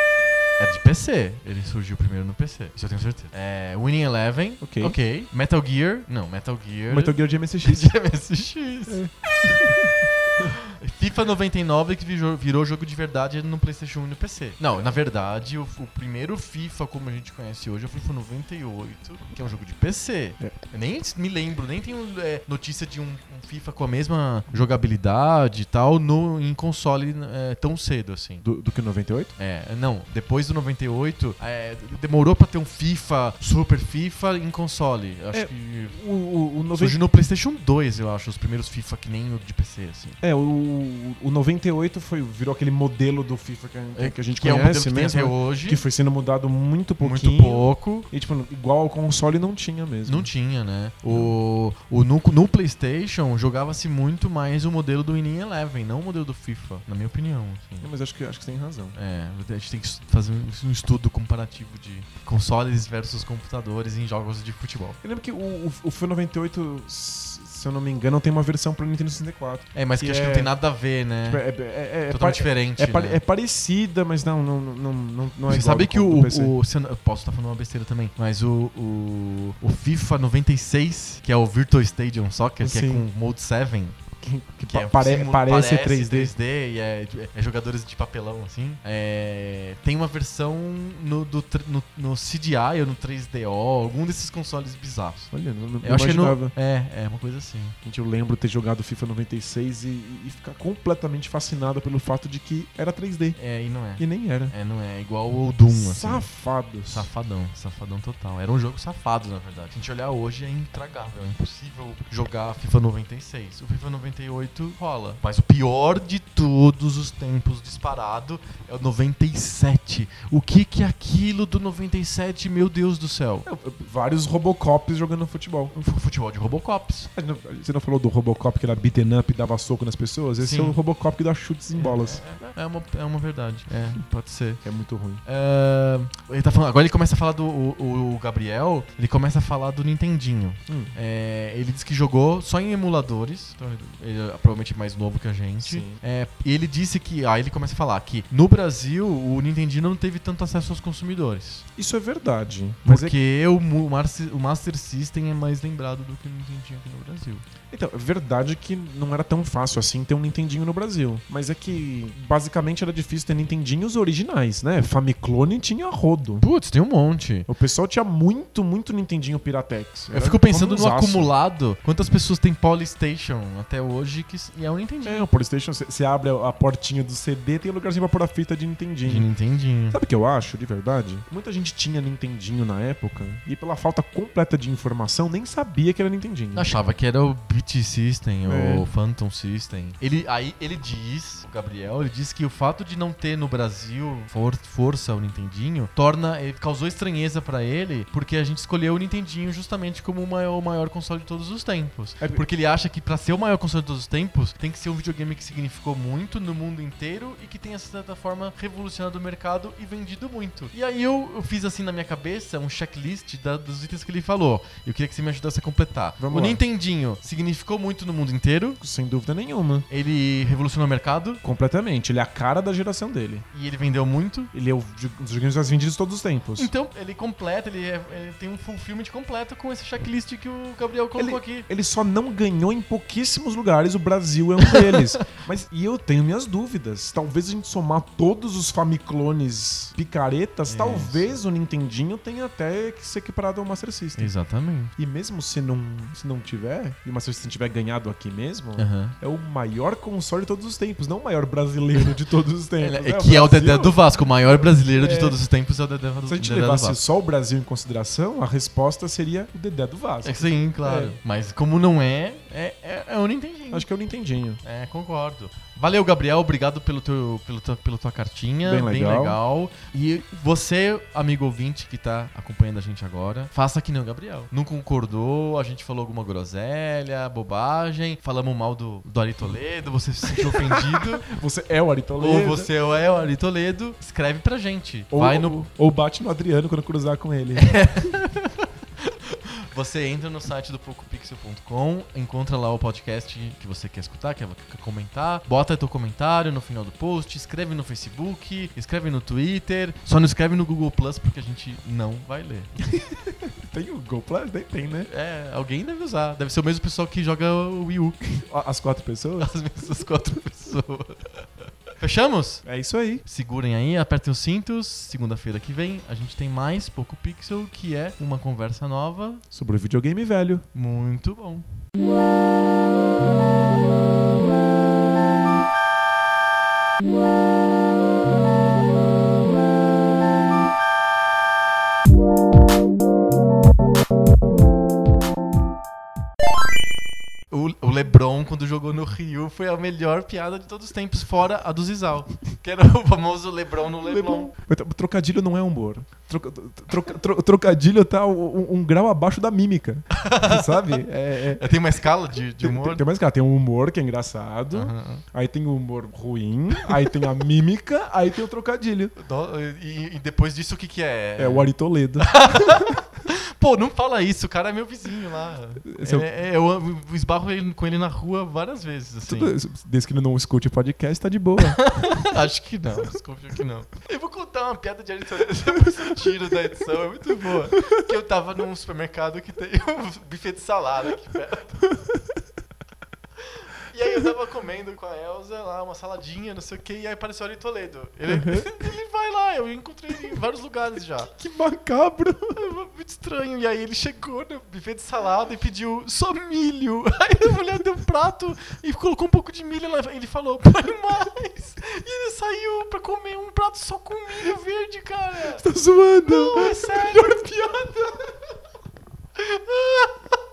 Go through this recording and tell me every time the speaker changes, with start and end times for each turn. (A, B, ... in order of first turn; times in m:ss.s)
0:00.6-0:09.0 A
0:04.6-0:05.0 B
0:06.9-0:07.9 B
0:08.9-0:10.6 B
0:10.4-0:28.4 A
0:28.4-0:29.4 B
0:29.4-0:36.0 A
0:35.3-0:37.0 B
0:36.7-0:40.2 A
0:40.2-0:50.3 B
0:44.0-0:45.8 A
0:47.0-0:48.1 A
0:50.1-0:57.9 A
0:51.1-0:51.4 B
0:57.8-0:59.0 B
0:59.0-1:05.0 A
1:05.0-1:10.5 B
1:09.7-1:11.4 A
1:11.2-1:16.6 B
1:12.1-1:13.2 A
1:15.5-1:24.0 A
1:22.6-1:23.1 B
1:24.2-1:26.3 B
1:24.7-1:35.3 A
1:35.3-1:36.5 B
1:35.8-1:37.8 A
1:37.8-1:43.4 B
1:43.4-1:46.3 A
1:44.0-1:44.5 B
1:45.7-1:47.1 B
1:46.9-2:03.5 A
2:03.4-2:05.8 B
2:05.7-2:07.1 A
2:07.2-2:12.2 B
2:10.4-2:10.8 A
2:11.7-2:14.6 A
2:14.6-2:15.2 B
2:15.2-2:31.6 A
2:20.7-2:21.0 B
2:25.6-2:26.0 B
2:31.8-2:33.2 B
2:32.8-2:37.5 A
2:37.7-2:46.5 B
2:46.4-2:47.5 A
2:47.5-2:51.3 B
2:50.1-2:55.3 A
2:55.0-2:59.3 B
2:59.0-3:00.0 A
2:59.9-3:06.7 B
3:06.5-3:38.8 A
3:08.4-3:08.9 B
3:22.2-3:22.4 B
3:36.2-3:36.6 B
3:38.8-3:39.9 B
3:39.9-3:41.4 A
3:41.4-3:43.4 B
3:43.5-3:44.5 A
3:44.5-3:46.7 B
3:46.6-3:51.7 A
3:51.2-4:04.3 B
3:54.6-3:55.1 A
4:00.7-4:01.3 A
4:04.2-4:04.9 A
4:05.0-4:14.0 B
4:08.8-4:09.2 A
4:12.8-4:17.0 A
4:14.9-4:15.4 B
4:16.2-4:21.2 B
4:20.2-4:23.9 A
4:23.7-4:24.6 B
4:24.6-4:41.3 A
4:28.6-4:29.4 B
4:40.3-4:42.7 B
4:42.2-4:45.7 A
4:45.1-4:47.8 B
4:47.6-5:02.8 A
5:02.9-5:05.1 B
5:05.1-5:08.2 A
5:08.4-5:09.5 B
5:09.4-5:12.6 A
5:12.6-5:13.2 B
5:13.2-5:19.4 A
5:19.5-5:20.6 B
5:20.7-5:21.6 A
5:37.5-5:44.5 A
5:44.0-5:51.7 B
5:50.1-5:53.0 A
5:52.6-5:59.1 B
5:54.7-5:55.2 A
5:59.2-6:09.6 A
6:01.4-6:03.0 B
6:05.9-6:06.3 B
6:09.2-6:11.9 B
6:11.7-6:21.9 A
6:16.0-6:16.3 B
6:17.5-6:18.0 B
6:22.0-6:22.4 B
6:23.5-6:31.3 A
6:28.3-6:28.9 B
6:31.2-6:32.6 B
6:32.6-6:45.6 A
6:45.5-6:48.1 B
6:46.2-6:48.1 A
6:49.4-6:50.2 A